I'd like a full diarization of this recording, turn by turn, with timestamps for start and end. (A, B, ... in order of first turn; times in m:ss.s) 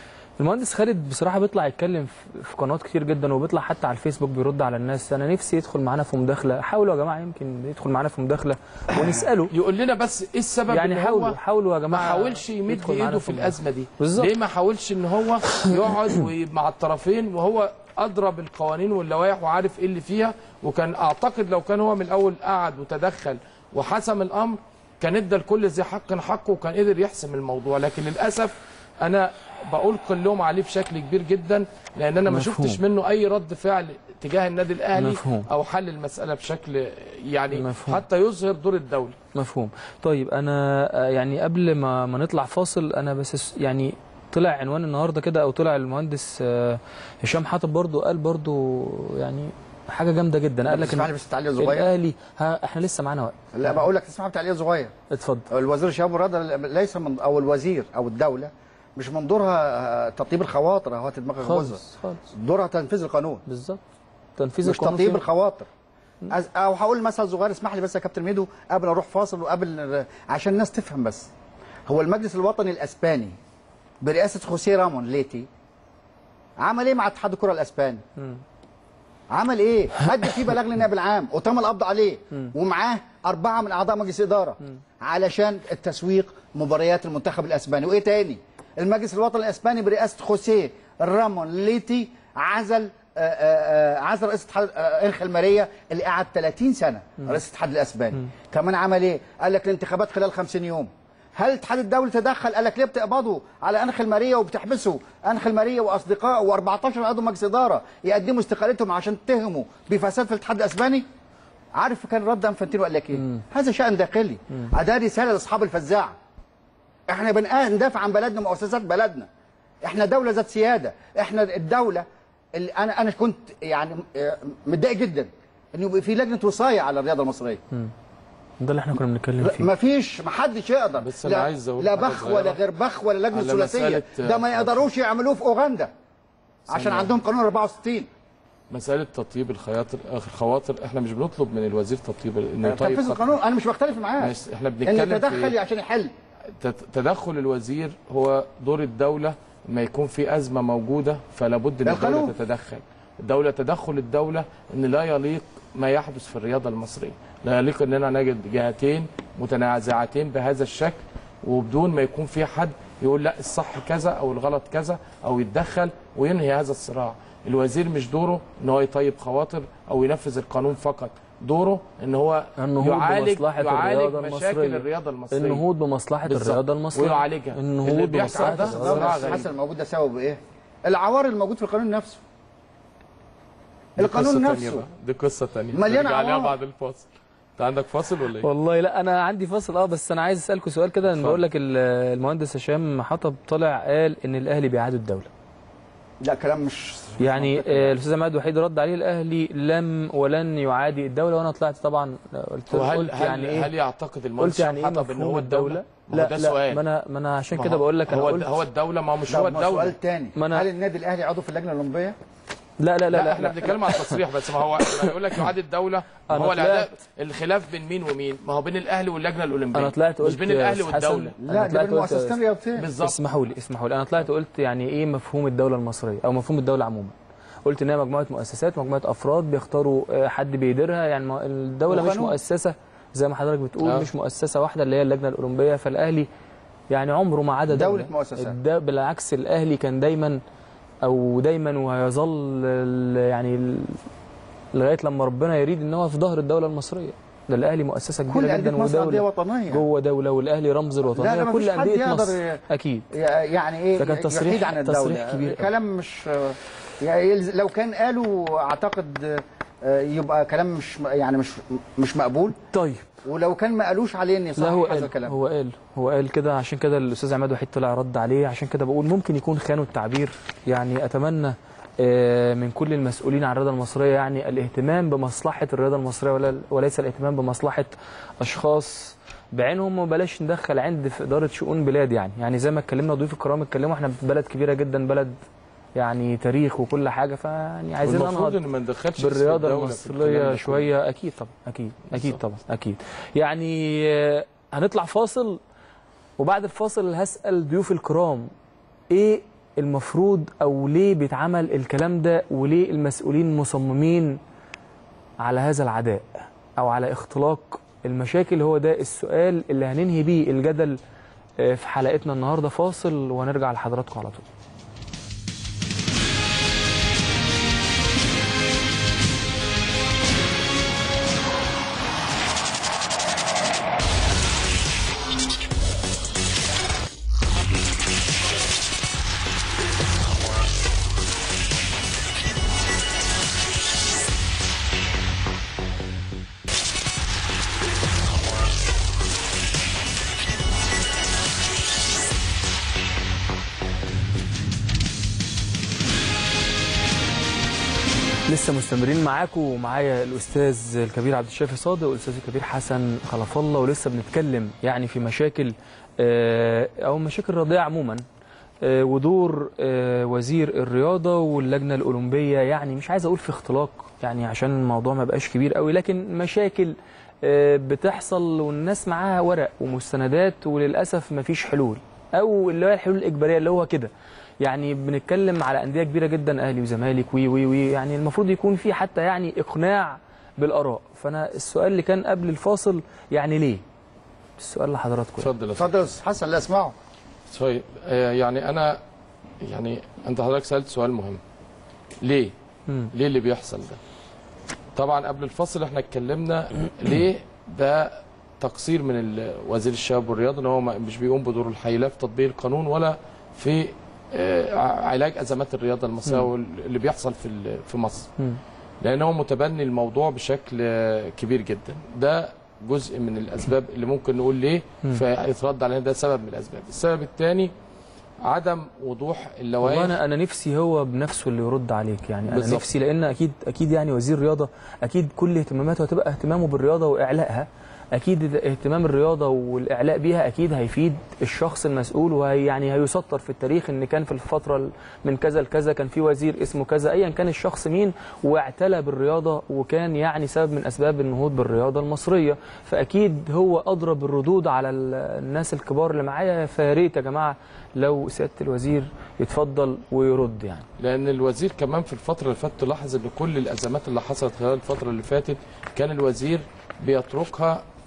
0:00.4-0:09.5 A
0:09.5-0:11.4 B
0:10.7-0:14.3 A
0:11.9-0:39.2 B
0:32.3-0:32.8 A
0:35.0-0:35.5 A
0:37.5-0:38.0 A
0:39.3-0:53.8 A
0:50.7-0:51.9 C
0:53.5-0:54.9 C
0:55.1-0:55.5 A
0:55.5-1:01.8 C
1:01.4-1:02.3 A
1:02.3-1:03.4 C
1:03.5-1:03.8 A
1:04.4-1:05.2 A
1:04.6-1:05.7 C
1:06.3-1:11.3 C
1:11.9-1:13.4 C
1:14.0-1:15.5 C
1:16.6-1:18.0 C
1:19.3-1:51.0 C
1:51.8-1:56.1 C
1:57.1-1:59.3 C
1:59.8-2:07.6 C
2:08.6-2:09.7 A
2:09.4-2:15.9 C
2:11.0-2:12.6 B
2:13.3-2:14.9 B
2:16.7-2:18.1 C
2:16.7-2:17.2 B
2:18.7-2:23.4 B
2:22.6-2:26.1 C
2:24.2-2:25.5 B
2:26.6-2:55.6 B
2:31.8-2:32.3 C
2:52.6-2:59.4 A
2:56.2-2:59.5 B
2:58.2-3:02.2 C
3:04.0-3:04.8 C
3:04.0-3:07.1 B
3:05.7-3:06.6 C
3:07.6-3:08.5 B
3:08.4-3:15.3 A
3:16.2-3:17.9 C
3:17.2-3:23.7 A
3:22.7-3:26.8 B
3:24.4-3:28.5 A
3:27.5-3:30.0 B
3:29.3-3:32.2 C
3:30.4-3:30.7 A
3:32.8-3:34.2 A
3:33.1-3:41.4 B
3:34.7-3:35.4 A
3:36.3-3:36.9 A
3:39.8-3:42.4 A
3:41.4-3:42.9 C
3:42.8-3:43.2 B
3:43.0-3:47.1 A
3:47.6-3:56.3 A
3:51.9-3:52.4 C
3:53.8-3:54.1 B
3:56.9-4:00.4 A
3:57.7-3:58.6 C
4:01.0-4:04.0 A
4:04.7-4:13.1 A
4:08.3-4:09.8 C
4:11.1-4:12.6 C
4:13.1-4:22.6 C
4:14.0-4:15.7 A
4:22.7-4:23.1 A
4:23.2-4:25.4 C
4:24.6-4:45.4 A
4:46.0-4:48.6 A
4:48.0-4:50.9 B
4:49.2-4:55.6 A
4:56.4-4:58.5 A
4:59.1-5:04.4 A
5:05.4-5:11.0 A
5:11.6-5:14.5 A
5:48.5-5:58.2 A
5:58.8-6:14.1 A
6:14.6-6:23.8 A
6:24.6-6:25.5 A
6:25.4-6:25.9 B
6:25.8-6:27.0 C
6:27.5-6:29.0 B
6:29.6-6:31.4 B
6:32.2-6:32.5 B
6:33.1-6:34.0 B
6:35.0-6:48.3 B
6:49.0-6:57.7 B
6:58.4-7:00.2 B
6:59.8-7:30.9 A
7:02.5-7:02.9 B
7:31.0-7:37.8 B